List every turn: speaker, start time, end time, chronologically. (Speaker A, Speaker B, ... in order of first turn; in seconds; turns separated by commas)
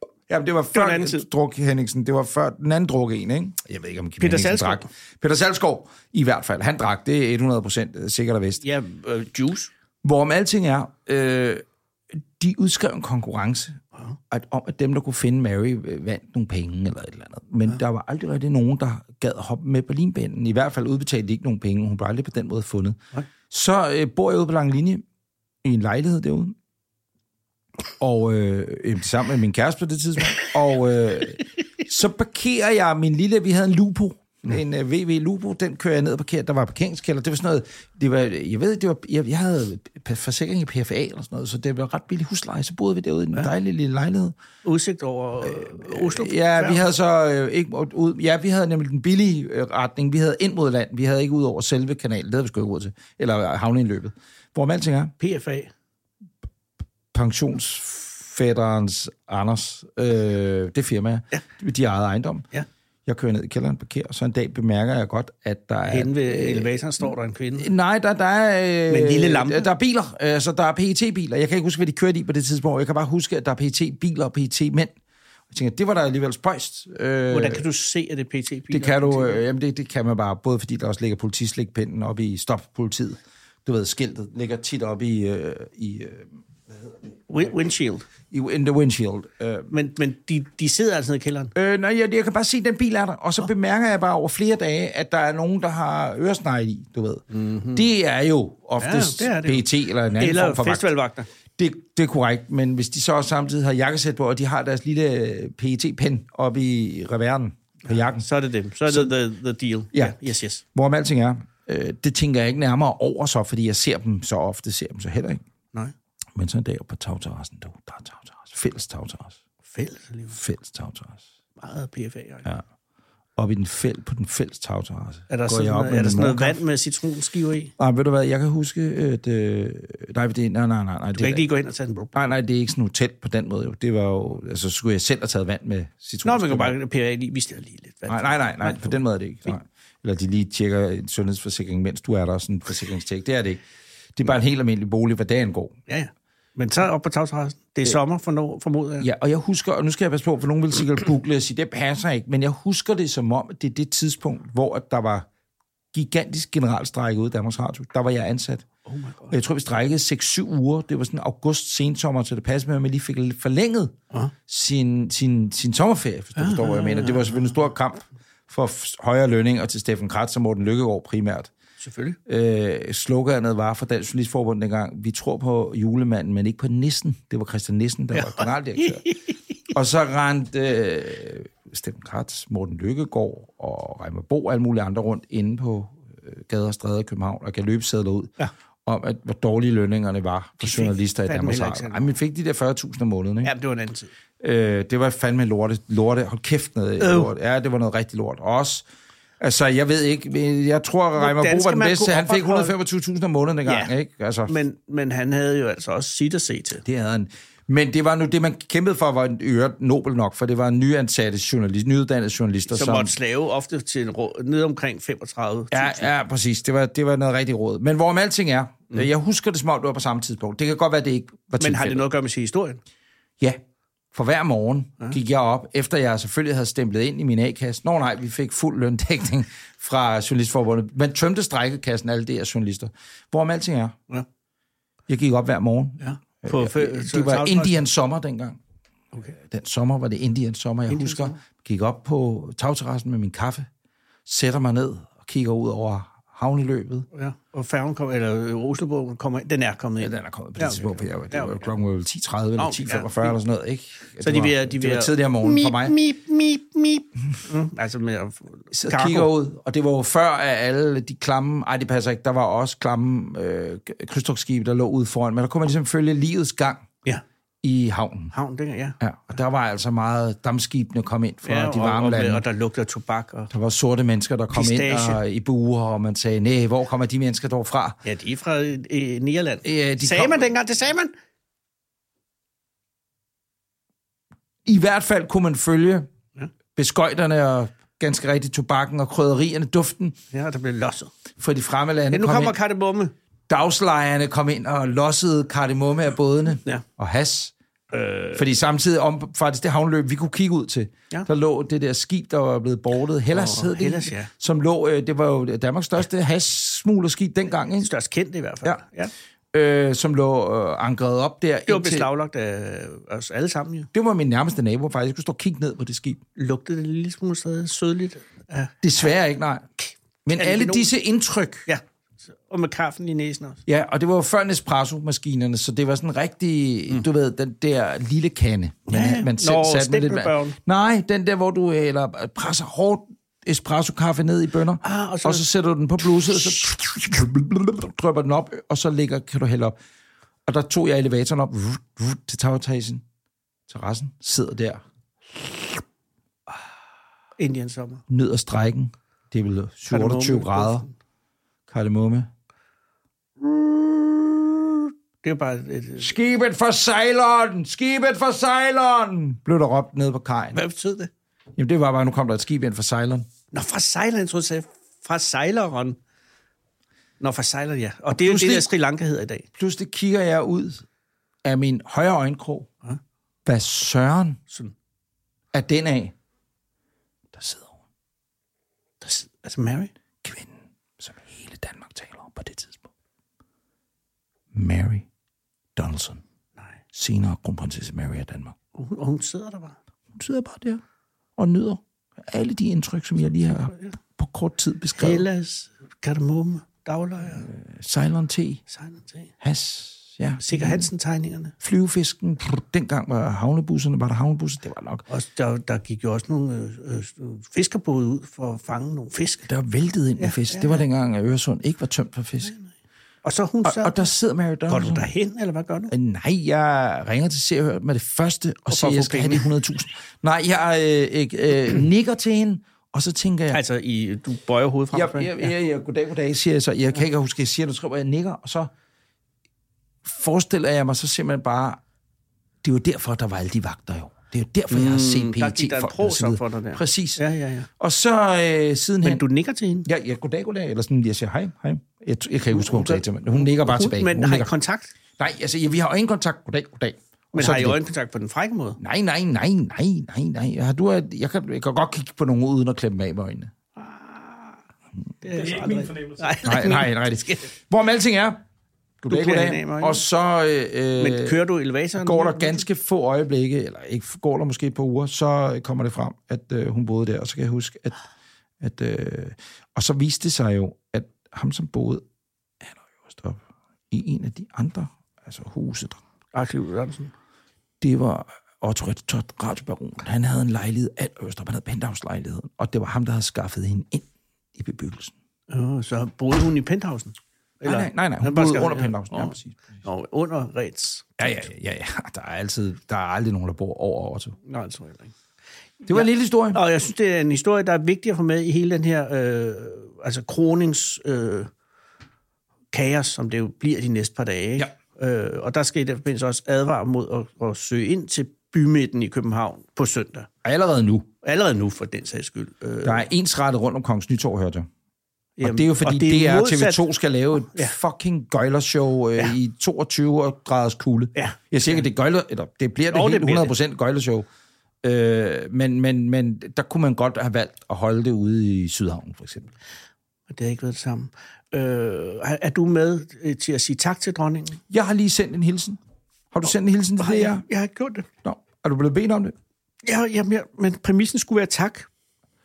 Speaker A: 0.3-8.6, Speaker B: 0.7-1.2, Speaker B: 4.2-4.9, Speaker B: 8.6-9.7, Speaker A: 10.0-11.6, Speaker A: 12.2-13.8, Speaker A: 14.3-23.0, Speaker A: 23.5-25.0, Speaker A: 25.6-26.6, Speaker A: 28.0-44.4, Speaker B: 44.6-46.8, Speaker A: 45.4-55.1, Speaker B: 55.2-55.7, Speaker A: 57.1-62.5, Speaker A: 63.1-66.8, Speaker B: 65.9-67.7, Speaker A: 67.6-75.0, Speaker B: 68.9-69.7, Speaker A: 75.5-77.7, Speaker B: 77.3-79.4, Speaker A: 78.7-87.5, Speaker B: 87.3-88.0, Speaker A: 88.3-89.7, Speaker B: 89.7-91.5, Speaker A: 91.5-100.9, Speaker B: 97.3-97.9, Speaker B: 98.8-101.3, Speaker A: 101.6-108.2, Speaker B: 107.9-110.6, Speaker A: 110.7-115.4, Speaker A: 116.3-119.4, Speaker B: 119.7-120.4, Speaker A: 120.3-121.2, Speaker B: 121.6-122.5, Speaker A: 123.4-126.6, Speaker B: 125.3-127.7, Speaker A: 127.8-131.5, Speaker B: 131.1-132.2, Speaker A: 132.1-136.8, Speaker B: 136.2-139.5, Speaker A: 138.1-143.6, Speaker A: 144.2-145.8, Speaker B: 145.9-149.1, Speaker A: 149.0-155.3, Speaker A: 155.9-158.7, Speaker B: 158.9-159.4, Speaker A: 159.3-163.9, Speaker A: 164.5-171.5, Speaker B: 166.4-167.6, Speaker B: 171.8-172.2, Speaker A: 172.3-179.1, Speaker B: 178.1-179.2, Speaker A: 179.7-188.3, Speaker A: 188.9-193.5, Speaker B: 190.6-192.1, Speaker B: 193.4-194.1, Speaker A: 194.4-198.9, Speaker B: 197.0-197.3, Speaker A: 199.4-204.6, Speaker B: 201.2-202.7, Speaker B: 203.7-203.9, Speaker B: 204.5-206.8, Speaker A: 206.8-213.1, Speaker B: 212.7-216.1, Speaker A: 215.7-222.0, Speaker B: 221.6-222.8, Speaker A: 224.1-234.0, Speaker A: 235.1-238.6, Speaker B: 236.0-237.8, Speaker B: 239.1-239.4, Speaker A: 239.5-243.7, Speaker B: 240.9-241.4, Speaker A: 244.3-247.1, Speaker B: 247.1-251.7, Speaker A: 250.0-256.0, Speaker B: 252.6-253.4, Speaker B: 254.2-259.3, Speaker A: 258.7-266.9, Speaker A: 267.6-268.3, Speaker B: 268.3-269.0, Speaker A: 269.0-272.4, Speaker B: 271.4-273.5, Speaker A: 273.5-278.0, Speaker B: 274.5-275.2, Speaker B: 278.1-281.1, Speaker A: 279.6-280.5, Speaker A: 284.7-286.1, Speaker A: 286.8-290.2, Speaker B: 290.3-291.1, Speaker A: 291.4-292.6, Speaker B: 292.1-293.1, Speaker A: 293.5-297.5, Speaker B: 297.9-298.4, Speaker A: 298.4-307.9, Speaker B: 303.3-304.3, Speaker B: 307.6-309.1, Speaker A: 309.5-312.1, Speaker B: 311.7-313.9, Speaker A: 313.9-316.2, Speaker B: 316.4-318.7, Speaker A: 318.8-319.7, Speaker B: 319.8-320.9, Speaker A: 320.2-321.7, Speaker B: 322.4-323.6, Speaker A: 323.7-339.8, Speaker B: 328.9-330.6, Speaker B: 334.8-335.4, Speaker A: 340.5-343.0, Speaker A: 343.7-345.8, Speaker B: 347.4-348.0, Speaker A: 348.1-350.9, Speaker B: 349.9-350.9, Speaker A: 351.7-352.3, Speaker B: 353.4-356.1, Speaker A: 356.0-360.6, Speaker B: 360.5-361.1, Speaker A: 361.6-363.3, Speaker B: 363.5-366.0, Speaker B: 367.2-369.5, Speaker A: 368.1-368.7, Speaker A: 369.6-370.8, Speaker A: 371.4-372.7, Speaker A: 373.4-374.4, Speaker A: 375.5-376.1, Speaker A: 377.3-377.8, Speaker B: 379.0-379.9, Speaker A: 380.2-382.9, Speaker A: 384.5-385.1, Speaker A: 385.8-386.2, Speaker A: 386.9-388.6, Speaker B: 388.8-389.8, Speaker A: 390.1-390.8, Speaker A: 391.4-395.3, Speaker B: 393.6-394.0, Speaker B: 395.0-397.5, Speaker A: 397.3-398.6, Speaker B: 398.7-399.3, Speaker A: 399.4-400.9, Speaker B: 400.4-401.5, Speaker A: 401.6-405.0, Speaker B: 405.1-409.5, Speaker A: 409.5-412.5, Speaker B: 410.2-410.8, Speaker B: 413.2-414.1, Speaker A: 413.6-415.1, Speaker B: 414.7-415.9, Speaker A: 415.9-423.6, Speaker B: 418.7-419.5, Speaker B: 423.5-425.5, Speaker A: 424.9-428.7, Speaker A: 430.0-431.8, Speaker A: 432.6-437.2, Speaker B: 434.7-437.7, Speaker A: 437.8-439.2, Speaker B: 439.0-439.9, Speaker A: 439.9-444.5, Speaker B: 442.5-444.9, Speaker A: 445.2-447.8, Speaker B: 447.3-448.8, Speaker A: 448.8-453.5, Speaker B: 453.8-454.6, Speaker B: 455.2-457.5, Speaker A: 456.4-458.4, Speaker A: 459.0-461.4, Speaker B: 459.1-460.0, Speaker B: 461.0-462.6, Speaker A: 462.0-468.0, Speaker A: 468.6-472.0, Speaker A: 472.6-476.0, Speaker B: 476.3-477.1, Speaker A: 477.8-485.1, Speaker B: 485.5-491.1, Speaker A: 487.6-489.6, Speaker A: 491.2-494.4, Speaker B: 494.4-495.1, Speaker A: 495.9-496.6, Speaker B: 495.9-501.5, Speaker B: 502.7-510.3, Speaker A: 510.4-511.1, Speaker B: 511.2-513.0, Speaker A: 512.8-514.7, Speaker B: 515.4-516.8, Speaker A: 515.4-524.3, Speaker B: 517.5-517.8, Speaker B: 521.2-521.9, Speaker B: 522.9-523.5, Speaker A: 524.8-529.5, Speaker B: 530.3-534.6, Speaker A: 534.7-535.8, Speaker A: 536.3-537.5, Speaker B: 537.0-538.1, Speaker A: 538.2-539.4, Speaker B: 539.8-541.9